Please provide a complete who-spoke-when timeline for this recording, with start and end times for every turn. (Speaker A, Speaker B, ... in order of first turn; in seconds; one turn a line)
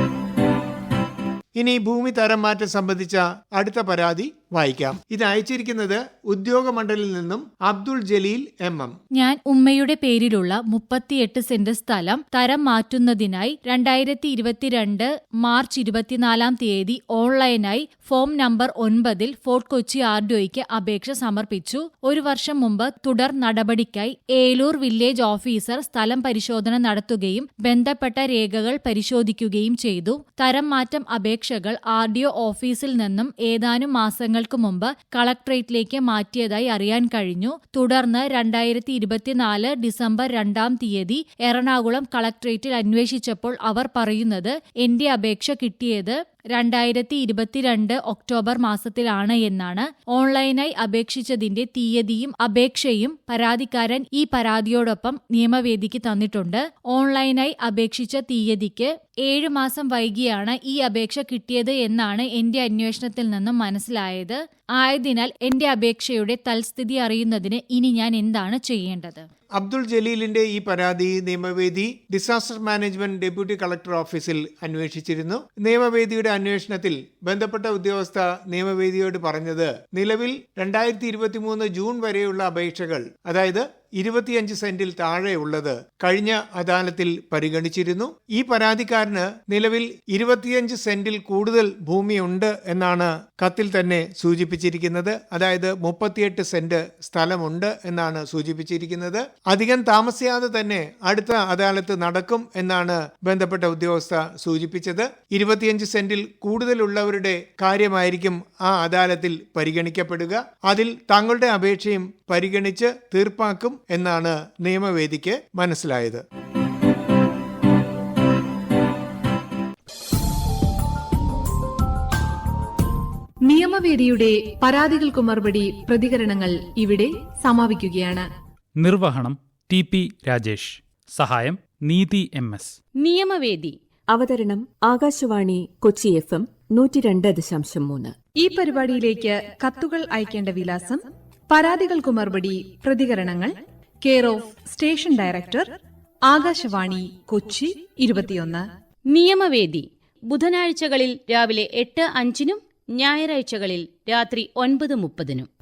Speaker A: 1.5-9.0
Speaker B: 9.2-69.2
Speaker A: 69.6-116.2
Speaker C: 123.4-128.3
Speaker D: 128.8-132.8
Speaker E: 132.9-133.8
Speaker F: 134.1-138.2
Speaker C: 138.3-148.7
Speaker E: 149.1-155.5